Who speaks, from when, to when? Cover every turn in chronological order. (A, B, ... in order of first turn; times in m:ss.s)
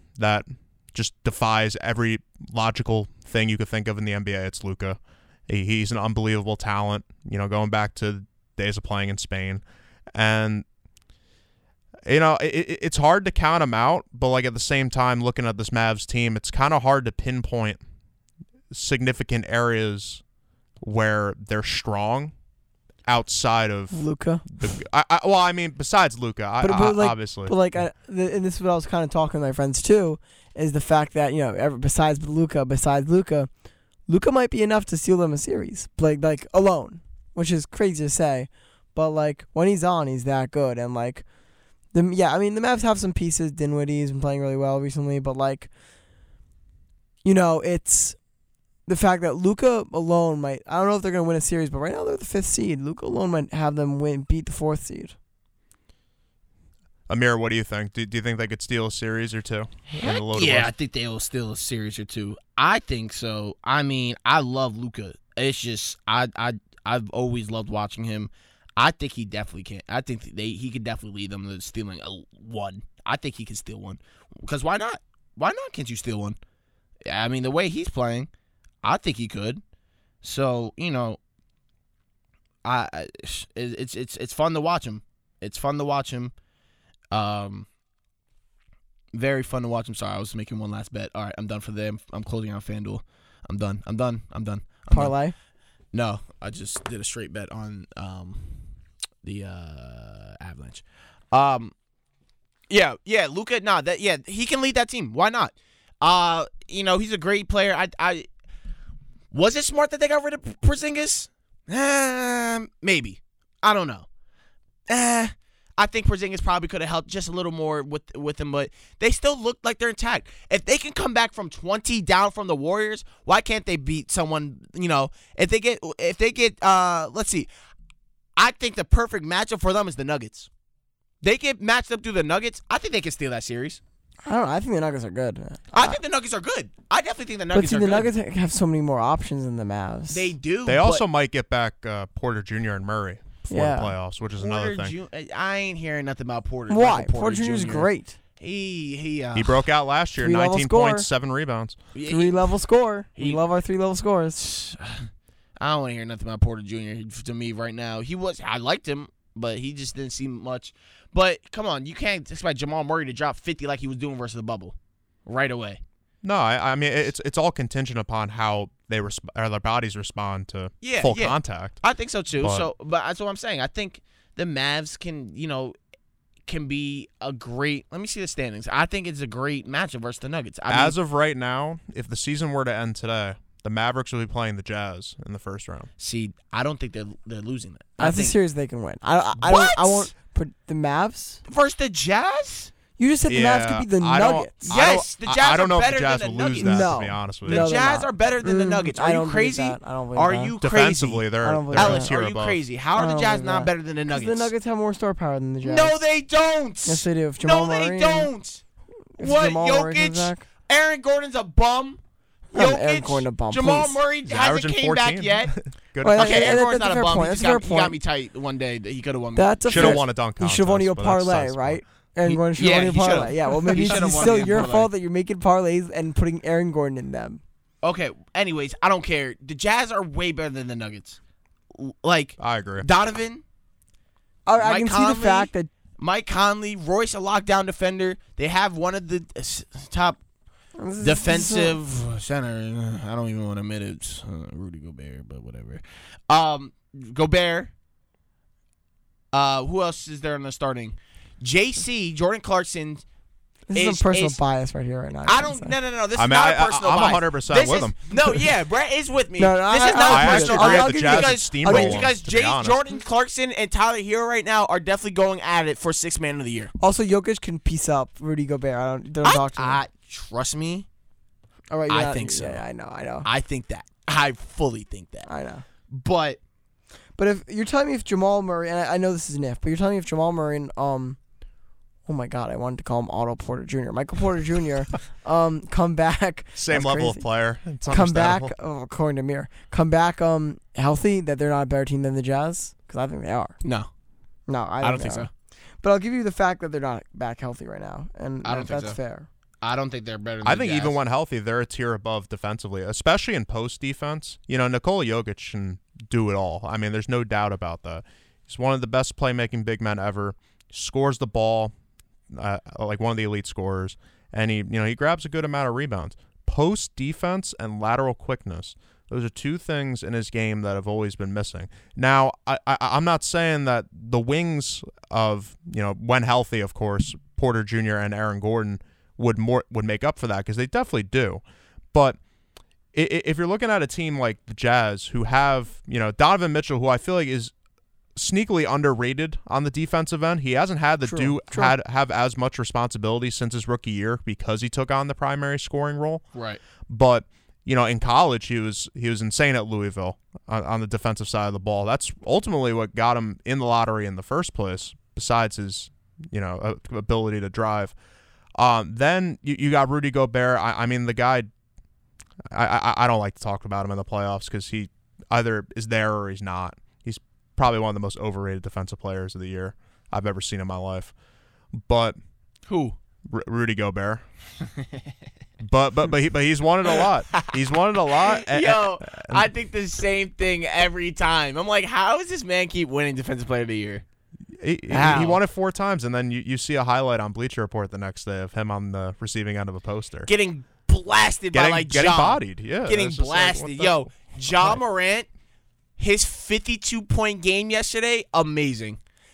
0:00.2-0:09.6 A
0:10.2-0:10.6 A
0:12.1-0:17.8 A
0:18.7-0:20.2 A
0:20.8-0:22.3 A
0:23.1-0:27.6 A
0:23.9-0:24.4 B
0:26.6-0:33.5 B
0:34.1-0:41.2 B
0:41.9-0:45.7 B
0:47.2-0:48.2 B
0:48.9-0:55.2 B
0:57.1-1:00.7 A
1:00.0-1:16.4 C
1:17.1-1:18.3 C
1:18.8-1:19.6 C
1:20.2-1:21.2 C
1:22.6-1:26.3 C
1:27.1-1:27.7 C
1:29.1-1:35.2 C
1:34.9-1:35.4 B
1:35.9-1:38.6 C
1:39.2-1:41.7 C
1:42.7-1:48.3 C
1:49.3-1:54.1 C
1:54.9-2:07.5 C
2:08.4-2:10.5 C
2:11.2-2:13.8 C
2:14.2-2:16.0 B
2:15.7-2:18.1 C
2:17.5-2:20.3 B
2:20.1-2:21.0 C
2:20.7-2:24.9 A
2:23.5-2:24.0 B
2:24.4-2:27.9 C
2:26.7-2:28.2 B
2:28.4-2:29.6 C
2:29.4-2:31.8 A
2:30.2-2:31.1 B
2:32.0-2:32.5 C
2:32.1-2:34.4 B
2:34.4-2:35.1 C
2:35.6-2:44.8 C
2:45.3-2:45.8 C
2:46.2-2:51.8 A
2:50.8-2:55.8 C
2:52.4-2:52.7 A
2:56.5-3:01.0 C
3:00.7-3:05.9 A
3:06.0-3:08.4 C
3:08.0-3:11.4 B
3:09.4-3:10.1 C
3:11.5-3:12.7 C
3:13.0-3:14.8 B
3:13.3-3:17.7 A
3:14.7-3:24.5 C
3:16.6-3:20.6 B
3:20.6-3:22.6 A
3:21.4-3:22.1 B
3:23.0-3:26.0 B
3:25.6-3:28.6 C
3:26.9-3:28.3 B
3:29.2-3:30.4 B
3:29.2-3:32.0 C
3:32.5-3:34.0 B
3:32.5-3:35.5 C
3:34.3-3:36.6 A
3:36.0-3:38.0 B
3:36.2-3:40.0 C
3:39.4-3:47.4 B
3:39.7-3:41.8 A
3:42.2-3:44.9 C
3:47.8-3:51.2 C
3:51.7-3:53.4 C
3:52.4-3:52.9 A
3:54.5-3:55.7 B
3:54.6-4:00.2 C
4:00.8-4:01.8 B
4:01.0-4:07.7 C
4:09.3-4:13.0 C
4:13.7-4:15.8 B
4:13.7-4:14.4 C
4:15.2-4:26.7 C
4:16.2-4:18.3 A
4:19.4-4:22.1 B
4:20.0-4:22.8 A
4:26.8-4:29.8 B
4:29.2-4:30.9 C
4:31.7-4:33.3 B
4:31.9-4:32.6 C
4:33.2-4:35.3 C
4:35.3-4:35.6 B
4:35.9-4:36.4 C
4:37.2-4:41.2 B
4:42.1-4:47.2 B
4:46.6-4:48.5 A
4:47.9-4:53.6 B
4:53.6-4:53.9 C
4:54.5-4:55.3 B
4:54.8-4:55.3 C
4:55.8-4:59.3 B
4:58.4-4:59.0 C
4:59.6-5:01.0 C
5:00.4-5:11.7 A
5:12.3-5:31.4 A
5:31.9-5:32.2 A
5:32.9-5:37.5 A
5:38.2-5:46.2 A
5:41.0-5:41.8 B
5:46.4-5:46.6 C
5:46.9-5:57.9 A
5:58.6-6:01.5 A
6:02.5-6:11.1 A
6:11.7-6:12.2 A
6:12.7-6:13.0 C
6:13.3-6:14.2 A
6:15.6-6:19.5 A
6:16.9-6:17.6 C
6:18.1-6:24.0 C
6:24.6-6:30.3 A
6:24.9-6:25.4 C
6:30.3-6:35.3 C
6:31.5-6:34.8 A
6:36.0-6:39.0 C